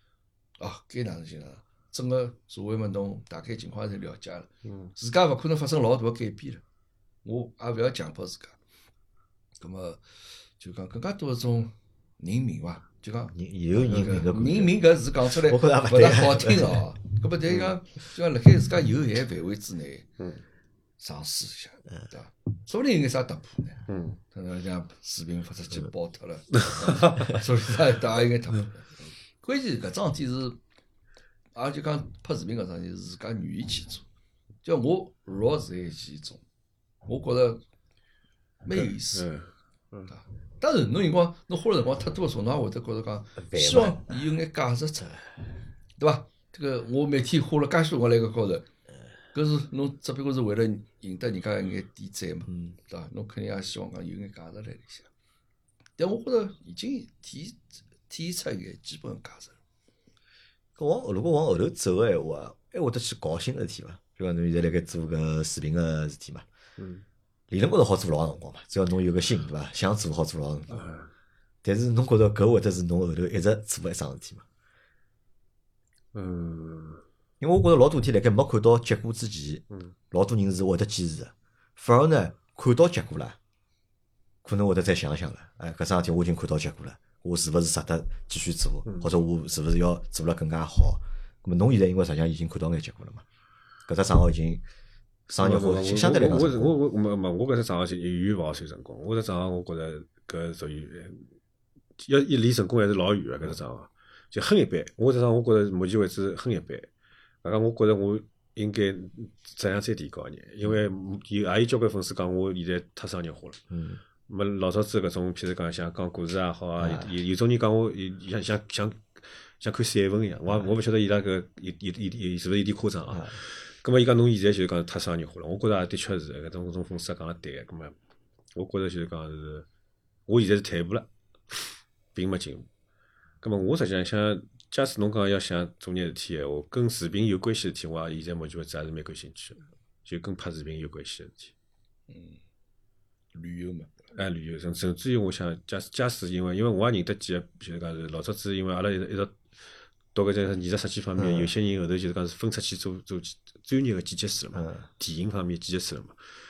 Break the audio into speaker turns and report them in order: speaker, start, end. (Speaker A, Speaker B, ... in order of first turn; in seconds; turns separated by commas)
Speaker A: 0.6-6.6, Speaker B: 4.6-4.9, Speaker A: 7.2-8.6, Speaker A: 9.6-10.0, Speaker A: 10.6-20.1, Speaker C: 13.3-16.8, Speaker A: 21.0-30.6, Speaker B: 23.9-24.2, Speaker B: 26.5-27.3, Speaker A: 31.5-34.0, Speaker A: 34.6-36.4, Speaker A: 37.0-37.6, Speaker A: 38.6-39.3, Speaker B: 39.1-40.1, Speaker A: 40.1-45.3, Speaker C: 43.4-44.1, Speaker A: 46.0-48.7, Speaker A: 49.3-55.1, Speaker A: 56.0-59.6, Speaker C: 60.8-66.4, Speaker B: 66.8-67.0, Speaker C: 67.5-70.8, Speaker B: 70.7-71.1, Speaker C: 71.6-74.4, Speaker B: 76.1-77.0, Speaker C: 77.4-83.4, Speaker C: 84.4-93.2, Speaker C: 93.8-94.6, Speaker C: 95.3-96.7, Speaker B: 95.4-101.2, Speaker B: 102.0-106.9, Speaker B: 107.4-113.6, Speaker C: 113.7-114.0, Speaker B: 114.3-127.9, Speaker C: 116.8-117.1, Speaker C: 123.1-123.4, Speaker B: 128.5-129.7, Speaker B: 130.3-132.7, Speaker B: 133.4-141.5, Speaker A: 142.1-142.4, Speaker A: 143.3-143.9, Speaker B: 144.1-149.4, Speaker B: 150.1-156.2, Speaker C: 151.2-151.5, Speaker C: 154.5-154.8